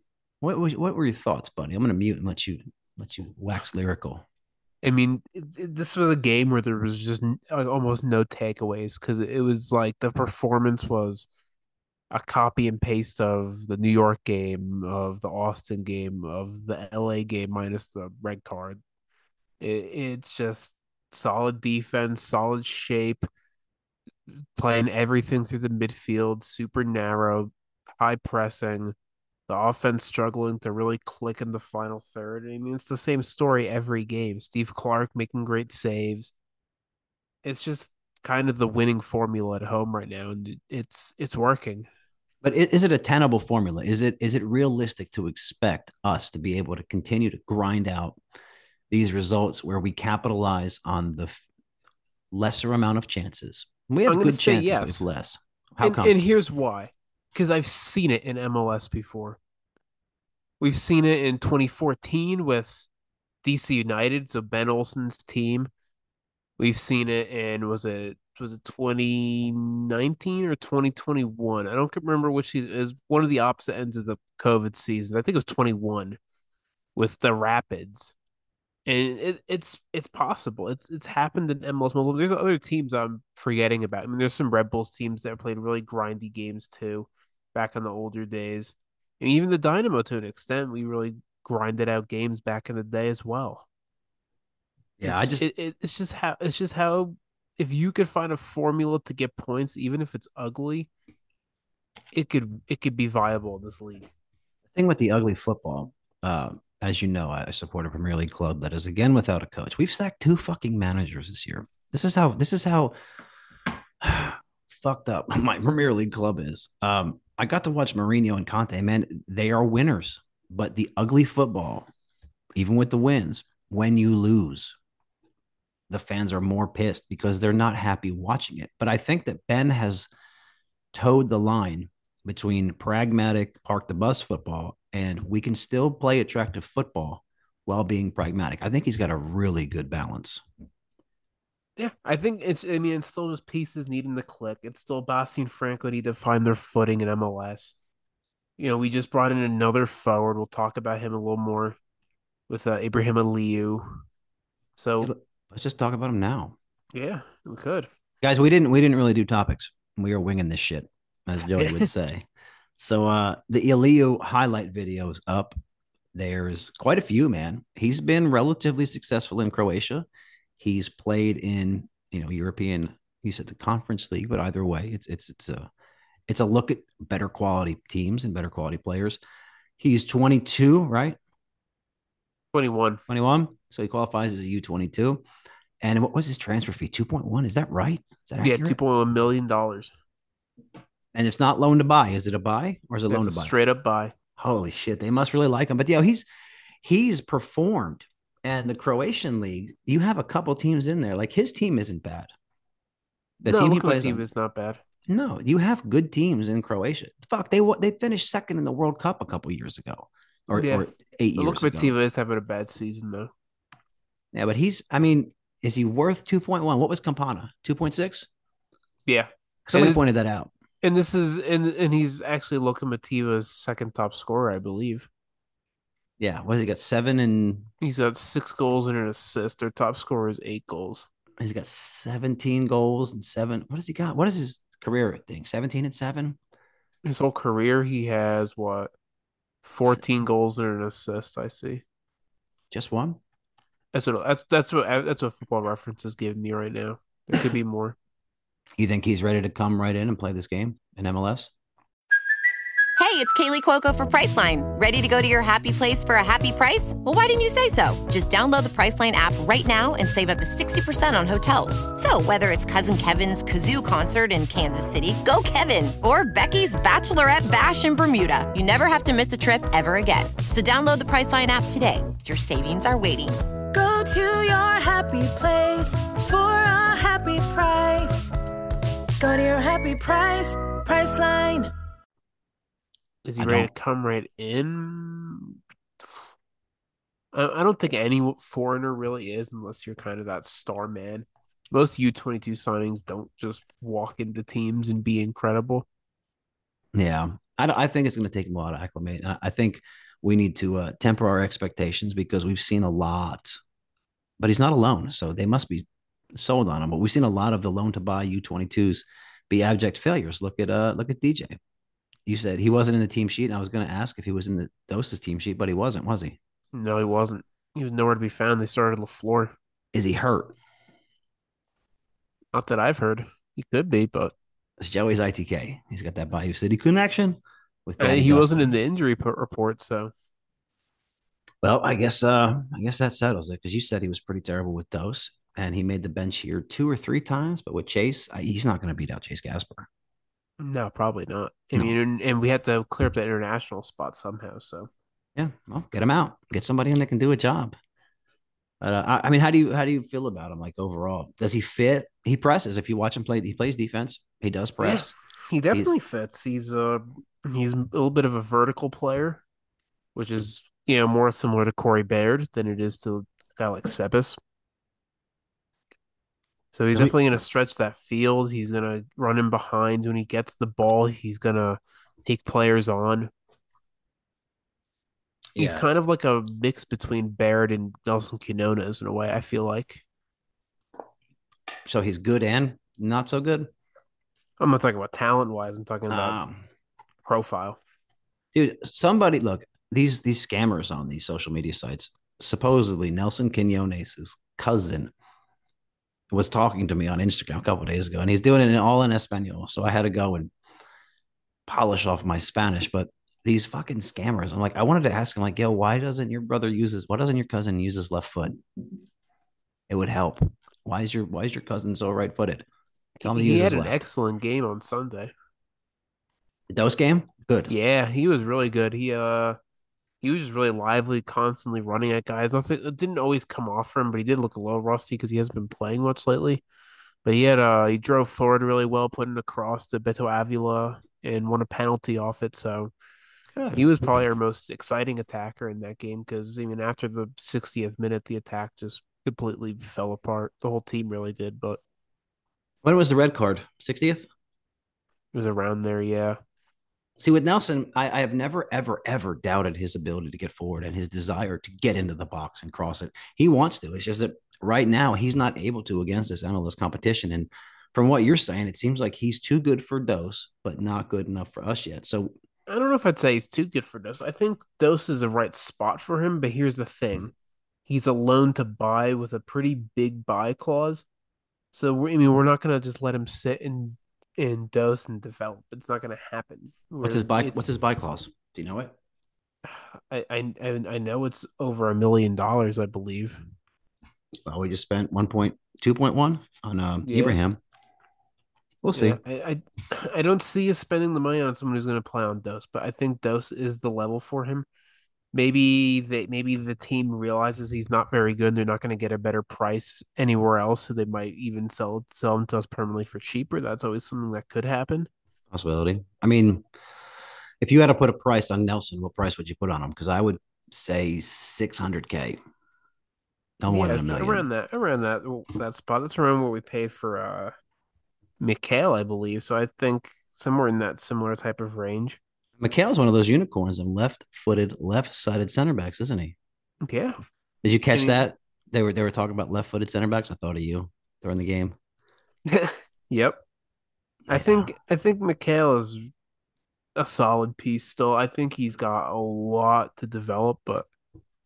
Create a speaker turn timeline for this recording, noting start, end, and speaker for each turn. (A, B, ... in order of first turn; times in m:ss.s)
0:00.4-0:04.2 A
0:04.8-0:11.3 B
0:12.1-0:18.8 B
0:19.6-0:23.3 B
0:24.6-0:29.0 B
0:29.5-0:36.3 B
0:37.4-0:41.9 B
0:42.4-0:48.2 A
0:48.9-0:51.4 A
0:52.3-0:56.2 A
0:54.1-0:55.1 B
0:55.8-0:59.4 B
1:00.6-1:02.9 B
1:03.4-1:05.7 B
1:06.6-1:16.2 B
1:17.0-1:18.2 B
1:18.9-1:33.7 B
1:35.0-1:35.4 A
1:35.0-1:40.9 B
1:42.1-1:44.1 B
1:44.8-1:53.0 A
1:54.0-2:01.9 A
2:02.6-2:04.8 A
2:05.9-2:10.1 A
2:10.9-2:20.4 A
2:21.8-2:27.8 B
2:28.6-2:31.8 B
2:32.5-2:34.0 B
2:34.8-2:35.1 B
2:35.0-2:36.6 A
2:36.9-2:37.9 B
2:38.2-2:42.2 A
2:41.6-2:41.8 B
2:42.8-2:45.6 A
2:46.2-2:50.1 A
2:50.6-2:55.7 A
2:56.3-2:59.2 A
2:59.8-3:01.2 A
3:02.5-3:03.0 B
3:03.1-3:05.2 A
3:05.8-3:08.8 A
3:08.4-3:09.9 B
3:11.1-3:13.6 A
3:13.1-3:14.2 B
3:14.4-3:16.3 A
3:16.8-3:22.3 A
3:23.4-3:24.2 A
3:23.5-3:24.8 B
3:25.1-3:31.9 A
3:30.5-3:30.9 B
3:31.4-3:33.3 B
3:34.3-3:38.3 A
3:39.1-3:40.0 B
3:39.7-3:40.5 A
3:40.8-3:45.1 B
3:46.2-3:47.7 A
3:47.8-3:51.1 B
3:51.4-3:56.4 A
3:57.0-3:58.9 B
3:59.6-4:01.8 B
4:02.7-4:03.2 A
4:03.9-4:08.0 B
4:08.8-4:11.5 A
4:13.0-4:33.4 C
4:33.7-4:38.3 D
4:39.2-4:41.7 D
4:43.2-4:46.2 B
4:43.4-4:43.7 A
4:47.3-4:55.9 B
4:56.9-5:03.6 A
5:04.4-5:11.6 A
5:12.3-5:16.4 A
5:16.7-5:19.6 B
5:19.9-5:20.5 A
5:22.5-5:24.3 B
5:24.8-5:28.7 A
5:28.0-5:30.1 B
5:31.6-5:39.9 A
5:40.6-5:44.9 B
5:45.4-5:47.8 A
5:48.8-5:55.1 A
5:54.8-5:59.4 B
6:00.2-6:04.4 B
6:06.7-6:13.3 B
6:15.6-6:16.0 A
6:15.6-6:20.0 B
6:21.9-6:23.7 A
6:24.6-6:26.4 B
6:26.1-6:26.6 A
6:27.3-6:27.8 B
6:28.5-6:35.1 A
6:36.3-6:40.5 A
6:41.7-6:48.6 A
6:49.9-6:52.7 A
6:53.2-6:54.0 A
6:53.2-6:55.3 B
6:56.7-6:57.7 A
6:57.7-6:59.6 B
7:00.2-7:06.6 B
7:07.2-7:12.9 B
7:13.6-7:13.8 A
7:13.7-7:21.8 B
7:22.8-7:24.3 A
7:25.3-7:26.4 B
7:27.2-7:42.3 A
7:42.7-7:47.3 B
7:47.9-7:51.0 B
7:51.7-7:57.6 B
7:57.0-7:58.9 A
7:59.6-8:03.4 B
8:04.4-8:07.6 A
8:07.0-8:07.4 B
8:08.8-8:09.2 A
8:09.0-8:14.7 B
8:15.3-8:25.1 B
8:25.5-8:26.6 A
8:27.6-8:32.4 A
8:33.6-8:34.5 A
8:33.7-8:37.5 B
8:38.4-8:42.2 B
8:42.6-8:46.4 A
8:46.8-8:47.2 B
8:47.6-8:51.8 A
8:47.9-8:48.2 B
8:52.5-8:53.4 B
8:54.3-8:54.7 A
8:54.3-8:56.1 B
8:57.0-9:00.9 B